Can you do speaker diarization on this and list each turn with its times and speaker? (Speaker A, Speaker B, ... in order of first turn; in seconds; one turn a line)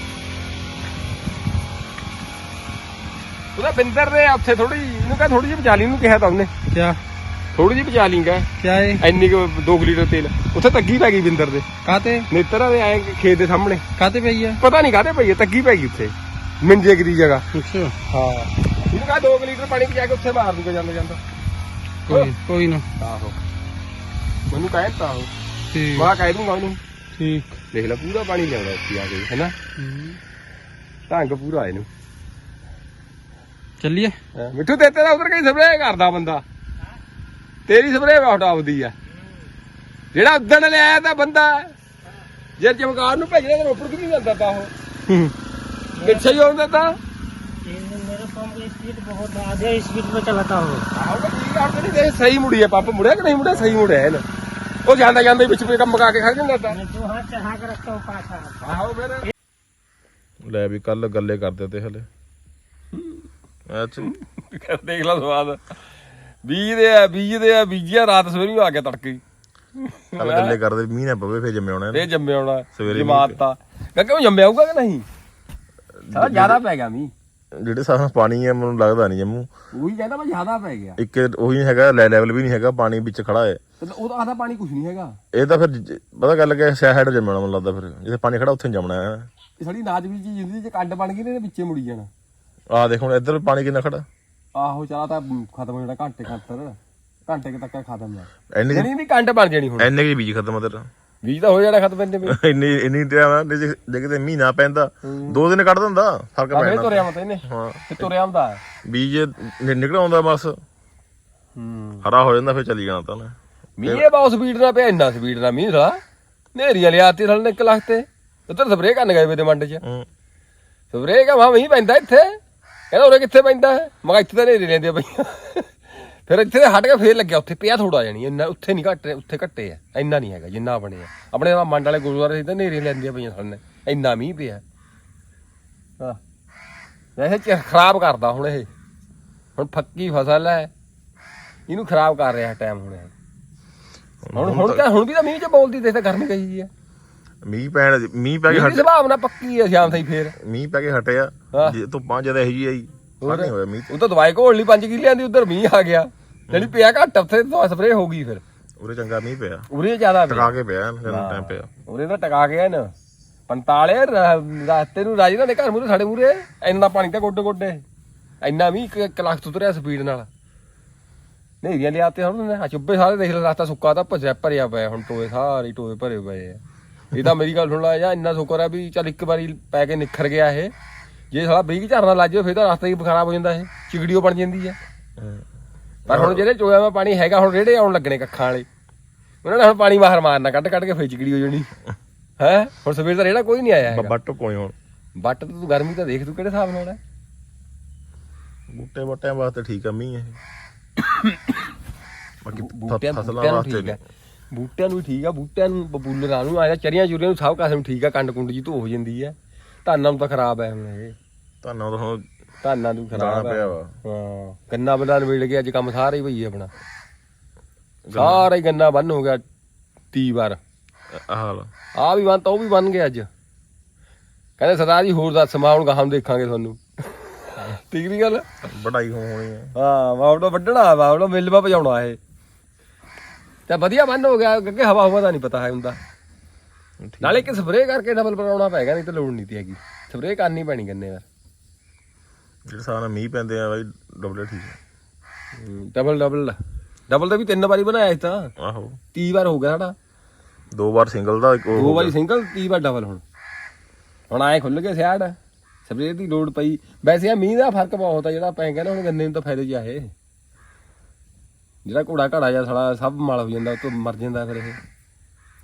Speaker A: 3.5-6.5
Speaker B: 6.7-7.0
Speaker A: 7.5-11.7
Speaker B: 8.6-9.1
Speaker B: 11.8-12.3
Speaker A: 12.3-13.9
Speaker B: 14.0-14.6
Speaker A: 14.6-17.4
Speaker B: 17.5-17.9
Speaker A: 18.1-21.2
Speaker B: 22.1-22.9
Speaker A: 23.0-23.4
Speaker A: 24.5-25.3
Speaker B: 25.7-26.1
Speaker A: 25.9-26.8
Speaker B: 27.1-27.6
Speaker A: 27.7-29.5
Speaker B: 29.8-30.2
Speaker A: 31.1-31.9
Speaker B: 33.8-34.1
Speaker A: 34.4-36.4
Speaker A: 37.7-38.9
Speaker A: 40.1-41.7
Speaker A: 42.6-45.3
Speaker C: 45.9-46.4
Speaker A: 46.0-47.0
Speaker C: 47.6-50.9
Speaker A: 50.9-54.2
Speaker A: 54.8-56.8
Speaker C: 56.7-58.6
Speaker A: 58.6-59.3
Speaker D: 60.4-62.1
Speaker A: 62.9-63.2
Speaker D: 63.7-64.1
Speaker A: 64.0-65.8
Speaker A: 66.4-69.2
Speaker A: 69.8-70.5
Speaker D: 70.2-72.1
Speaker A: 71.9-75.0
Speaker D: 72.8-73.4
Speaker D: 76.0-76.6
Speaker A: 76.1-77.1
Speaker D: 77.5-79.5
Speaker A: 79.7-81.0
Speaker D: 81.0-83.6
Speaker A: 83.8-85.2
Speaker D: 85.3-89.3
Speaker A: 89.6-92.1
Speaker D: 92.7-94.0
Speaker A: 94.5-99.9
Speaker D: 98.5-98.9
Speaker D: 99.8-100.9
Speaker A: 101.2-102.4
Speaker D: 102.2-108.1
Speaker A: 105.0-105.4
Speaker A: 106.5-108.6
Speaker D: 108.8-110.6
Speaker A: 111.5-112.0
Speaker D: 112.0-114.0
Speaker A: 113.8-116.0
Speaker A: 116.5-119.8
Speaker D: 119.8-120.1
Speaker A: 120.9-122.4
Speaker A: 122.9-134.6
Speaker A: 137.2-138.7
Speaker A: 139.6-140.7
Speaker A: 141.7-143.1
Speaker D: 144.2-144.8
Speaker A: 144.3-146.7
Speaker D: 147.4-148.9
Speaker A: 148.5-150.3
Speaker D: 150.3-153.9
Speaker A: 151.5-151.8
Speaker A: 153.2-158.4
Speaker D: 158.8-159.7
Speaker A: 159.7-160.5
Speaker D: 160.3-161.7
Speaker A: 161.1-162.9
Speaker A: 163.5-167.8
Speaker A: 168.4-170.3
Speaker A: 171.6-176.6
Speaker A: 177.1-180.7
Speaker A: 181.3-184.8
Speaker D: 185.2-185.4
Speaker D: 186.1-186.4
Speaker A: 186.1-188.7
Speaker A: 189.4-191.7
Speaker A: 192.4-194.1
Speaker D: 193.8-194.7
Speaker A: 195.2-197.0
Speaker D: 198.7-200.4
Speaker A: 201.0-201.5
Speaker D: 202.4-204.0
Speaker A: 202.5-204.0
Speaker A: 204.5-211.2
Speaker D: 211.6-212.3
Speaker A: 212.6-216.7
Speaker D: 213.1-213.9
Speaker D: 218.1-218.5
Speaker A: 218.1-219.4
Speaker A: 220.1-220.6
Speaker D: 221.1-221.7
Speaker A: 221.9-223.3
Speaker A: 224.6-228.5
Speaker D: 228.7-229.7
Speaker A: 229.7-232.2
Speaker A: 233.7-236.0
Speaker D: 237.0-237.5
Speaker A: 237.2-241.2
Speaker D: 242.7-244.8
Speaker A: 245.6-248.5
Speaker D: 248.6-249.0
Speaker A: 249.1-249.9
Speaker D: 250.7-252.1
Speaker A: 251.7-253.2
Speaker A: 254.3-260.1
Speaker A: 261.8-264.8